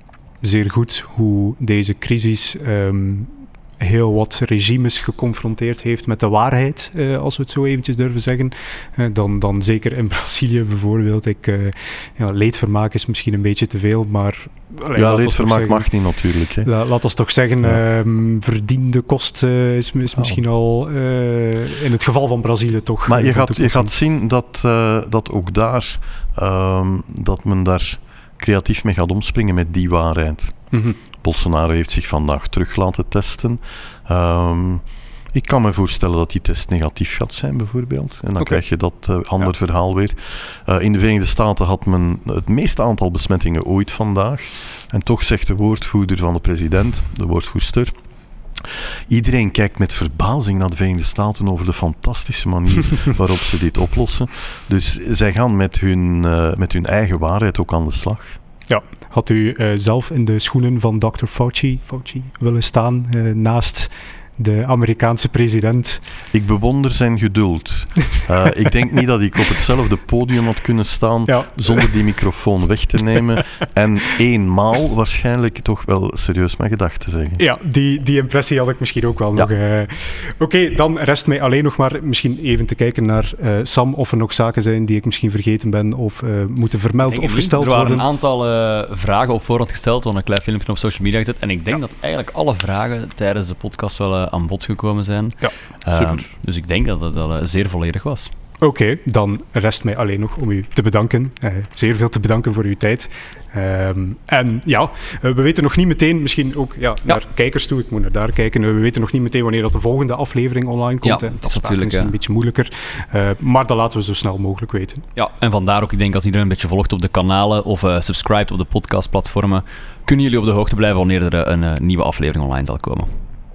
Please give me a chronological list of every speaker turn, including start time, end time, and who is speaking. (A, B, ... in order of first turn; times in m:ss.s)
0:00.4-0:15.9 A
0:15.0-0:16.7 B
0:16.6-0:23.9 A
0:23.1-0:30.6 B
0:30.7-0:31.0 A
0:31.2-0:47.9 B
0:48.6-0:58.4 B
0:58.7-1:06.0 A
1:06.3-1:17.4 B
1:11.3-1:11.9 A
1:17.4-1:28.0 A
1:27.1-1:38.3 C
1:38.6-1:55.1 A
1:51.0-1:52.1 C
1:55.2-2:03.1 C